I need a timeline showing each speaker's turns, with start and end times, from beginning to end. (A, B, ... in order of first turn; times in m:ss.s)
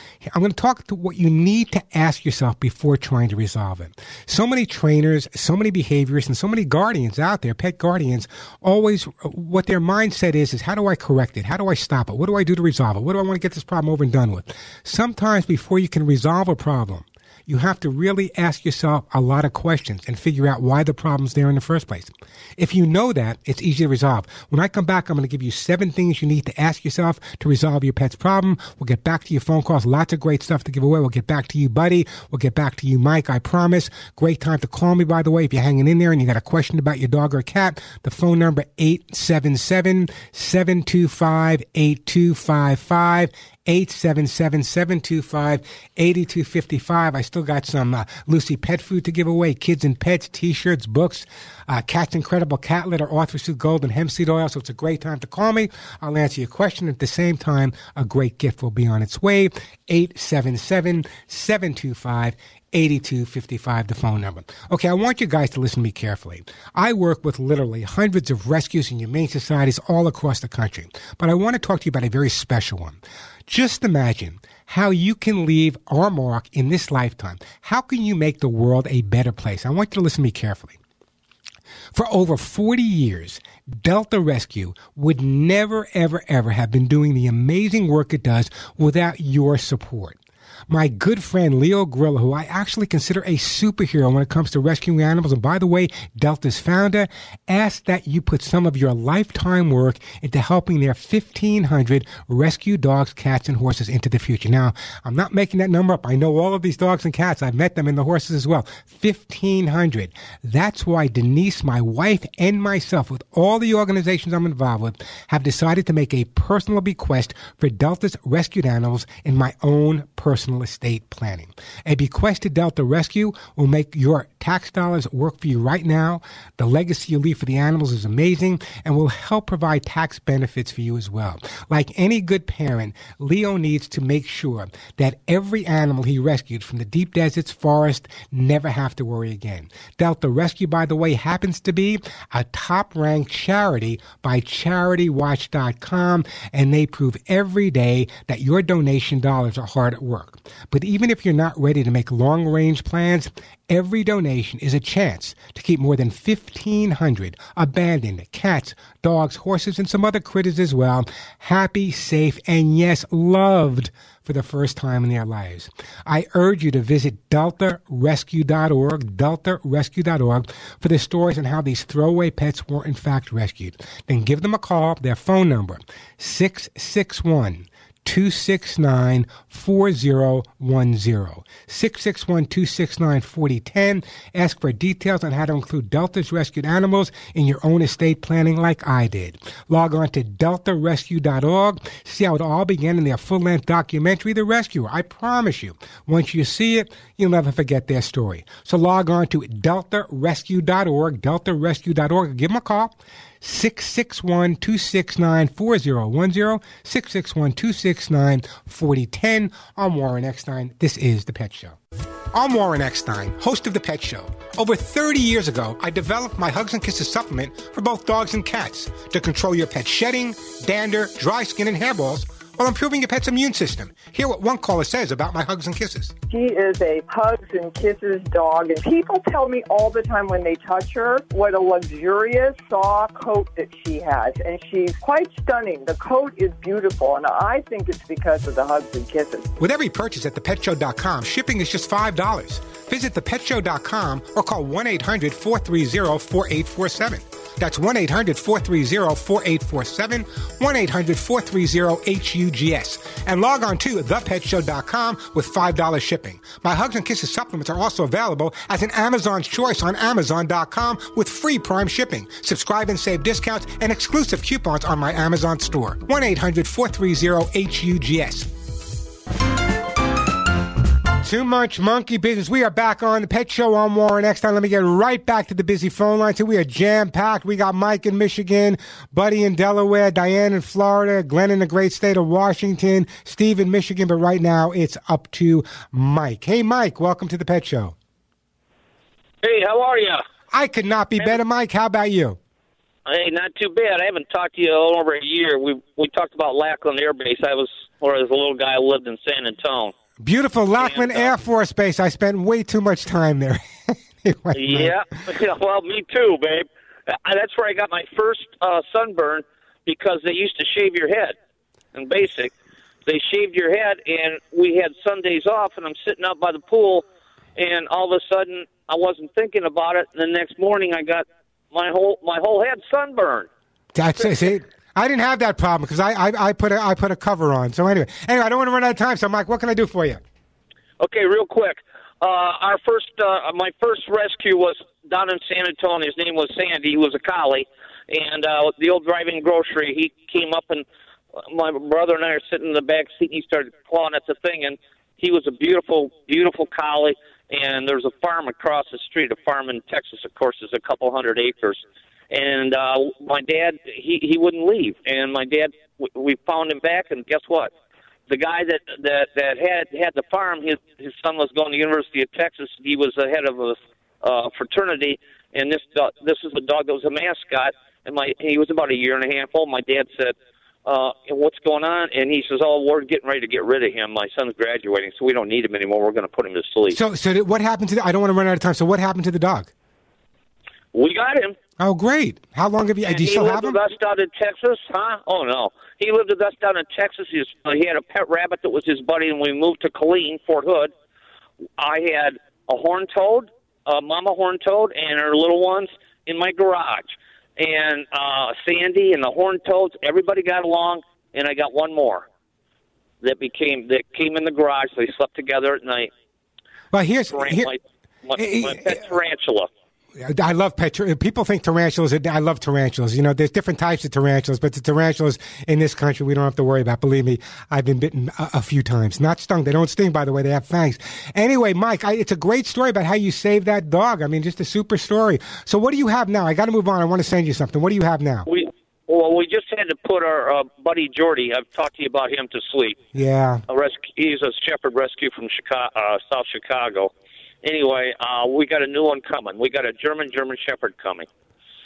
0:00.2-1:20.8 A
1:21.9-1:30.2 A
1:30.7-3:31.8 A
3:32.3-3:46.1 A
3:46.3-3:59.5 B
3:59.6-4:28.5 A
4:31.2-4:48.0 A
4:49.4-4:50.2 C
4:50.5-4:52.4 A
4:53.1-4:59.9 C
5:00.2-5:05.0 A
5:00.8-5:01.3 C
5:04.5-5:11.4 C
5:11.9-5:12.5 C
5:13.1-5:17.0 C
5:17.6-5:23.5 C
5:24.0-5:30.2 A
5:31.0-5:40.8 C
5:41.5-5:57.7 C
5:58.3-6:10.4 C
6:10.9-6:17.0 C
6:16.9-6:19.7 A
6:20.9-6:21.6 C
6:21.8-6:23.8 A
6:23.0-6:30.9 C
6:31.8-6:42.3 C
6:43.2-6:46.1 C
6:46.9-6:47.7 A
6:47.3-6:49.7 C
6:48.4-6:49.0 A
6:50.2-7:08.5 A
7:08.5-7:13.0 C
7:13.1-7:13.6 A
7:13.7-7:17.1 C
7:17.6-7:21.3 C